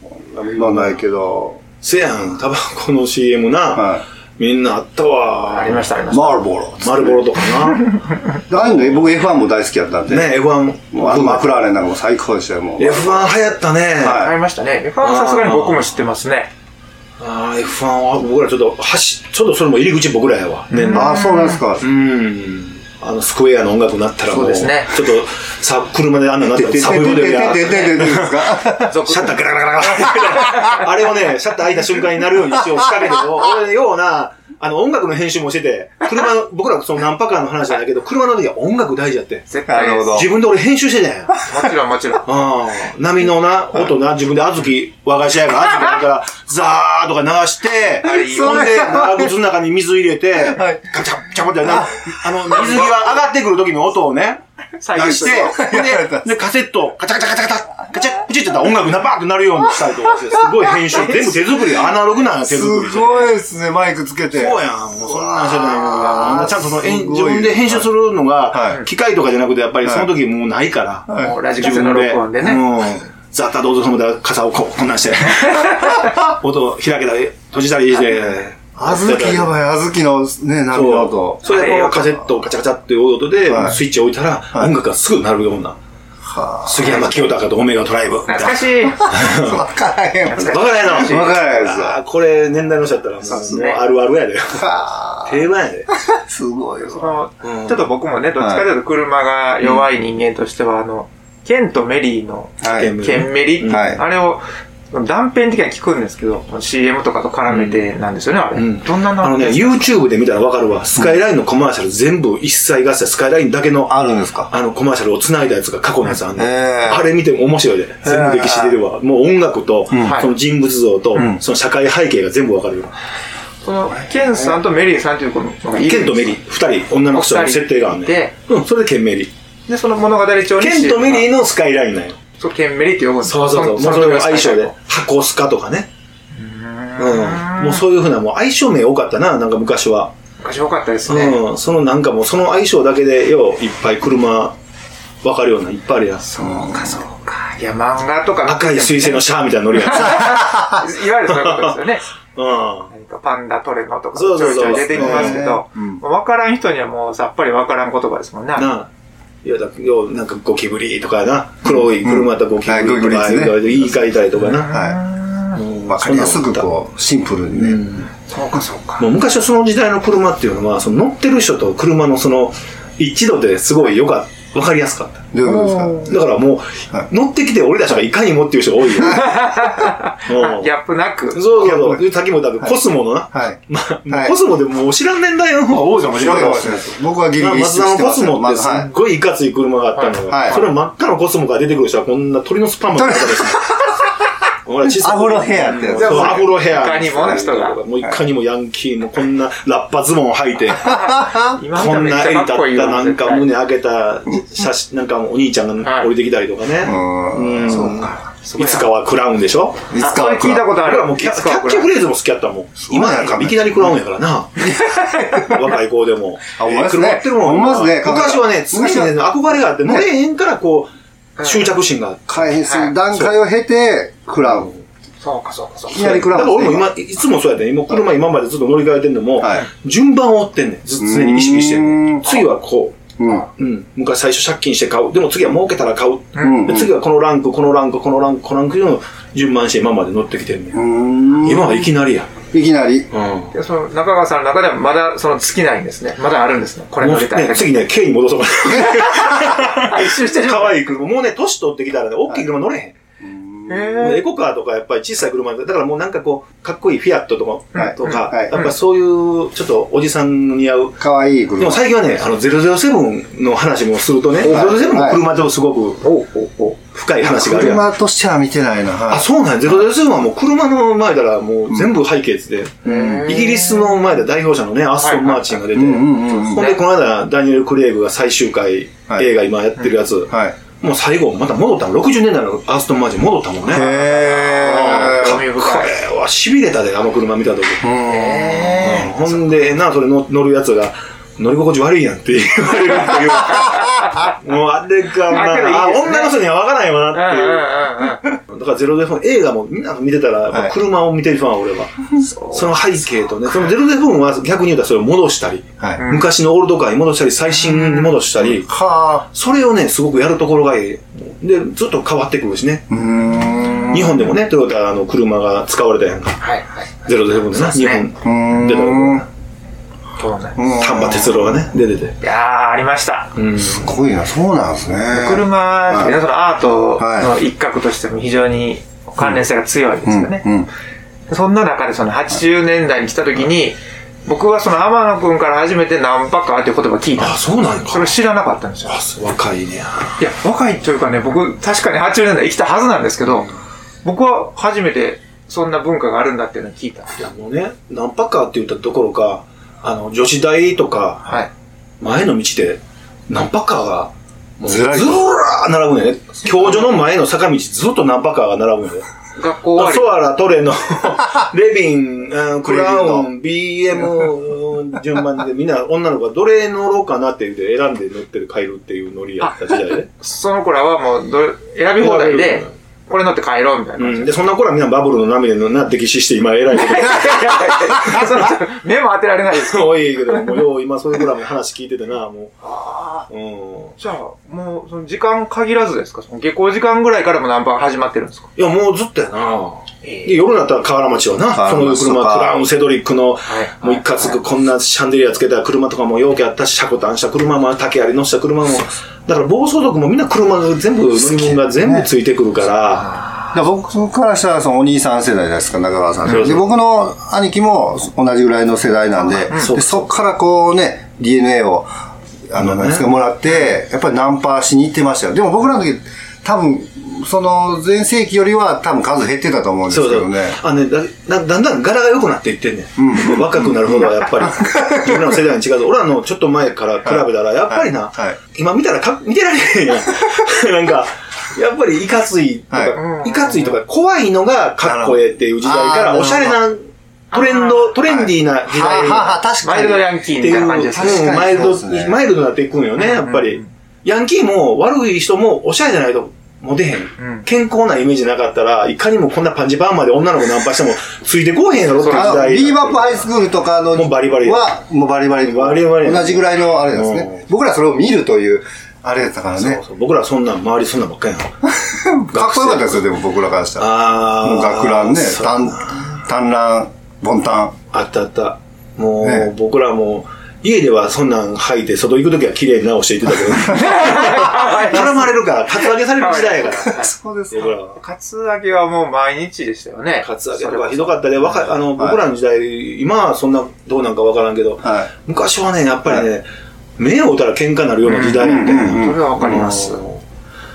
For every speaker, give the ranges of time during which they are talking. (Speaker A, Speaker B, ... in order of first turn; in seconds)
Speaker A: 0.1-1.6, 3.7-4.0, 6.1-7.3, 8.5-10.4, 10.9-13.3, 14.0-14.3, 20.8-21.8, 26.5-29.1, 30.1-30.6, 39.7-40.3, 48.0-49.3, 50.4-50.9, 51.7-52.9, 55.0-56.3, 60.2-61.3, 62.5-67.9, 68.5-68.8, 69.8-70.1, 71.1-71.4, 78.8-82.2, 83.5-83.8, 86.2-87.0, 89.0-92.0, 94.5-97.2, 98.4-98.7, 102.6-103.0, 103.7-104.0, 113.9-114.5, 116.3-117.1, 118.0-118.7, 119.9-120.2, 146.4-147.0, 149.9-150.9, 154.7-156.0, 162.0-163.8, 164.7-165.0, 165.9-167.8, 175.3-176.2, 181.6-182.0, 183.3-184.3, 186.1-188.9, 190.3-190.6, 193.0-193.8, 194.8-196.7, 197.2-197.4, 200.8-201.6, 206.8-208.2, 209.9-210.8, 212.8-214.0, 214.6-215.4, 216.6-220.1, 222.3-224.7, 225.9-226.9, 229.4-229.7, 231.0-232.4, 233.2-233.5, 236.4-236.9, 240.7-241.8, 242.5-243.1, 253.2-254.2, 257.8-258.6, 261.0-261.9, 264.5-265.2, 267.2-269.8, 275.7-276.7, 280.3-280.6, 283.7-285.4, 287.8-288.9, 308.4-309.3, 312.9-314.3, 318.2-319.2, 320.6-321.6, 323.7-326.2, 327.0-327.3, 330.1-330.7, 354.6-355.2, 362.6-363.3, 391.5-392.6, 401.1-402.1, 403.5-411.9, 412.5-420.6, 423.0-425.3, 427.0-428.4, 432.7-433.0, 434.8-436.6, 438.1-440.1, 440.8-442.2, 452.1-459.8, 461.6-467.8, 469.2-469.5, 476.7-477.7, 484.8-485.1, 488.4-489.2
Speaker B: 0.6-1.0, 1.8-5.9, 6.8-7.9, 8.5-9.1, 10.1-11.6, 12.8-14.3, 15.0-15.9, 17.2-21.2, 21.8-39.5, 40.1-41.4, 42.2-54.4, 54.9-63.3, 64.3-79.5, 80.7-85.8, 86.7-89.6, 90.4-94.7, 95.2-95.9, 97.4-97.9, 99.6-99.9, 102.6-104.0, 107.5-107.9, 108.5-123.0, 125.7-129.3, 130.6-132.2, 133.2-135.9, 137.0-140.1, 141.1-144.6, 145.2-146.3, 148.5-150.4, 151.2-151.8, 152.4-152.9, 154.1-155.4, 158.6-158.9, 159.4-164.7, 165.6-166.7, 167.5-168.1, 169.0-175.3, 176.1-179.4, 180.3-180.7, 181.3-193.7, 194.7-201.1, 201.6-209.9, 210.8-214.8, 215.3-223.3, 224.4-224.8, 225.9-240.8, 241.4-242.3, 243.1-243.5, 247.0-252.9, 254.0-261.0, 261.6-266.0, 266.9-267.9, 269.1-283.9, 284.6-287.8, 288.8-302.0, 302.5-308.7, 309.3-312.9, 313.9-316.4, 317.1-319.3, 320.8-322.2, 323.4-323.9, 337.2-338.2, 338.9-340.2, 347.2-351.4, 352.0-359.1, 359.7-370.1, 372.0-372.7, 374.0-378.3, 379.5-384.0, 388.6-403.2, 406.2-406.7, 409.5-410.1, 412.6-413.1, 419.9-439.4, 440.4-453.3, 453.9-454.7, 455.4-457.4, 459.6-461.5, 462.3-463.0, 463.8-466.2, 467.9-478.0, 480.2-486.5, 487.0-490.2
Speaker C: 5.5-6.5, 14.0-16.5, 20.7-21.6, 24.3-25.1, 28.9-29.4, 30.4-30.7, 39.5-40.2, 41.5-42.3, 48.0-48.8, 54.8-55.6, 71.2-72.7, 75.7-76.0, 81.5-82.1, 88.3-89.2, 90.3-91.4, 93.3-93.8, 96.8-109.9, 120.0-120.3, 123.6-126.4, 127.1-128.3, 129.7-131.3, 132.4-134.8, 136.3-137.8, 140.4-141.4, 146.2-149.3, 149.8-152.1, 152.9-158.7, 164.4-165.6, 168.3-169.1, 175.4-176.2, 179.0-181.8, 190.0-190.7, 195.9-197.8, 200.7-203.5, 205.8-206.1, 208.4-208.9, 210.0-211.9, 214.7-215.6, 221.4-221.7, 222.7-222.9, 225.2-226.2, 236.4-236.7, 243.5-247.8, 248.7-250.9, 253.7-254.3, 257.8-258.7, 264.4-264.9, 266.0-266.8, 267.5-267.8, 272.9-274.1, 275.0-275.6, 276.5-276.8, 283.7-285.9, 288.1-289.6, 293.7-294.3, 295.3-296.4, 297.1-298.3, 302.2-302.8, 306.0-306.3, 307.6-308.2, 313.4-313.9, 316.4-318.0, 320.2-320.7, 322.2-323.3, 325.1-330.4, 331.3-339.0, 340.2-343.5, 344.0-347.2, 359.4-360.2, 370.1-374.3, 376.7-380.6, 382.8-383.2, 384.0-388.5, 390.0-390.4, 393.5-394.4, 403.0-403.6, 409.5-409.7, 432.9-433.8, 437.3-437.9, 439.6-441.7, 443.0-443.7, 447.2-447.5, 452.0-452.4, 473.7-477.1, 477.9-481.6, 488.1-490.0